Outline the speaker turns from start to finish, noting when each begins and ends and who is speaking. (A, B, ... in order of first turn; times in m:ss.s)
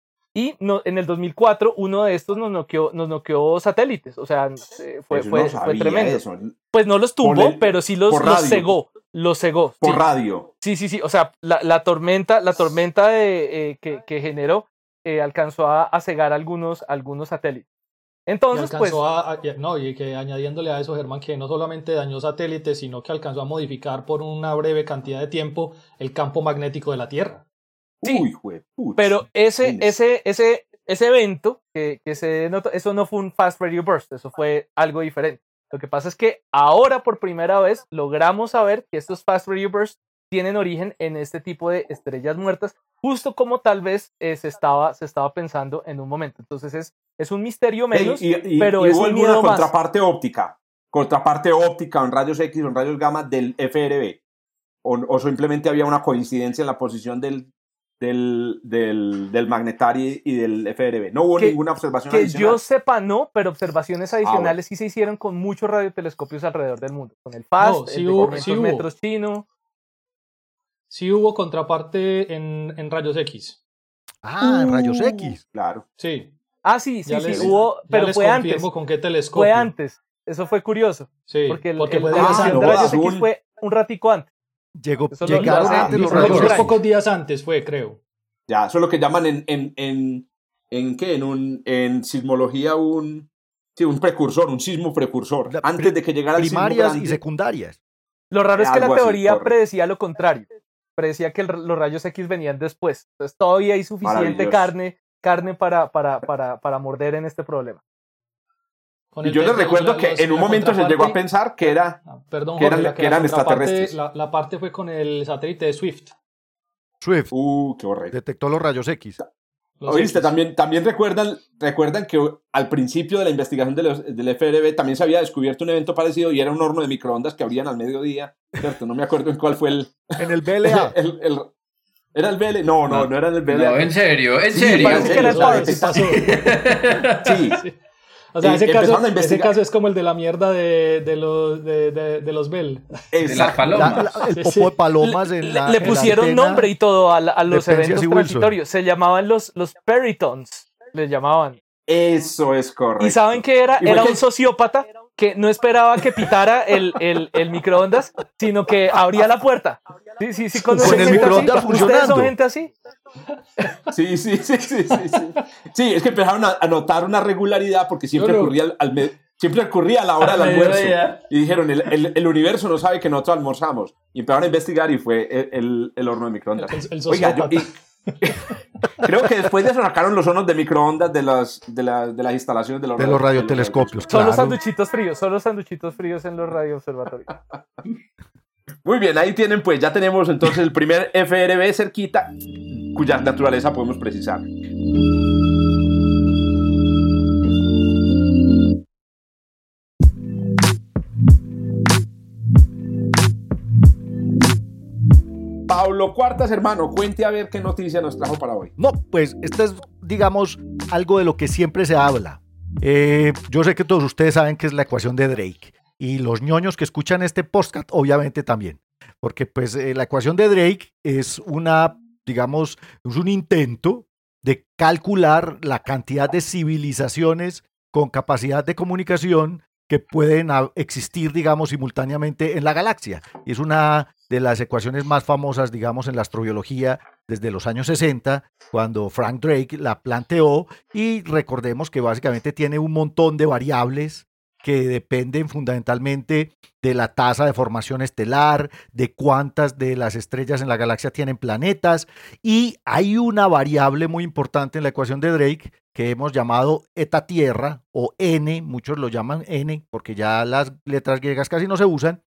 0:00.3-0:06.2 A
0:05.1-0:06.6 B
0:06.7-0:10.0 A
0:07.2-0:08.7 B
0:09.8-0:10.5 B
0:10.6-0:17.6 A
0:18.3-0:19.0 A
0:18.5-0:27.4 C
0:28.0-0:29.9 B
0:29.0-0:49.7 A
0:47.9-0:54.2 B
0:54.8-0:57.5 B
0:58.0-1:02.6 B
1:01.4-1:09.5 A
1:04.2-1:04.6 B
1:07.6-1:08.9 C
1:08.2-1:08.5 B
1:10.9-1:13.6 C
1:14.2-1:15.4 D
1:14.4-1:15.8 B
1:16.0-1:16.3 C
1:16.6-1:18.7 A
1:17.0-1:19.7 C
1:19.3-1:24.3 A
1:21.3-1:22.9 C
1:22.1-1:23.3 B
1:24.8-1:26.8 D
1:25.1-1:26.7 A
1:25.3-1:28.0 C
1:25.4-1:26.7 B
1:28.5-1:37.2 B
1:35.5-1:37.8 D
1:38.3-1:47.8 A
1:38.6-1:39.6 B
1:44.0-1:44.7 B
1:49.2-1:56.1 C
1:49.2-1:52.0 B
1:52.6-1:54.0 B
1:57.0-1:57.3 D
1:57.3-1:58.2 B
1:58.1-1:59.2 D
1:59.8-2:00.3 C
1:59.9-2:10.0 B
2:10.2-2:11.0 D
2:10.6-2:11.5 B
2:12.2-2:13.9 B
2:12.9-2:17.4 E
2:14.5-2:16.2 B
2:14.7-2:16.6 C
2:14.8-2:15.9 A
2:17.2-2:17.6 B
2:18.3-2:23.0 C
2:18.4-2:19.5 B
2:23.1-2:24.1 B
2:23.2-2:24.2 E
2:23.7-2:26.7 D
2:24.3-2:24.8 C
2:25.0-2:31.6 A
2:27.5-2:28.6 D
2:31.9-2:34.2 B
2:33.0-2:42.7 A
2:40.7-2:41.8 C
2:40.8-2:42.3 D
2:43.9-2:57.7 B
2:48.2-2:48.6 C
2:50.2-2:51.2 E
2:56.6-2:58.3 C
2:59.0-3:04.0 B
3:03.0-3:04.6 D
3:04.1-3:07.3 A
3:08.8-3:12.4 B
3:12.9-3:14.5 B
3:25.7-3:28.7 B
3:28.8-4:22.2 D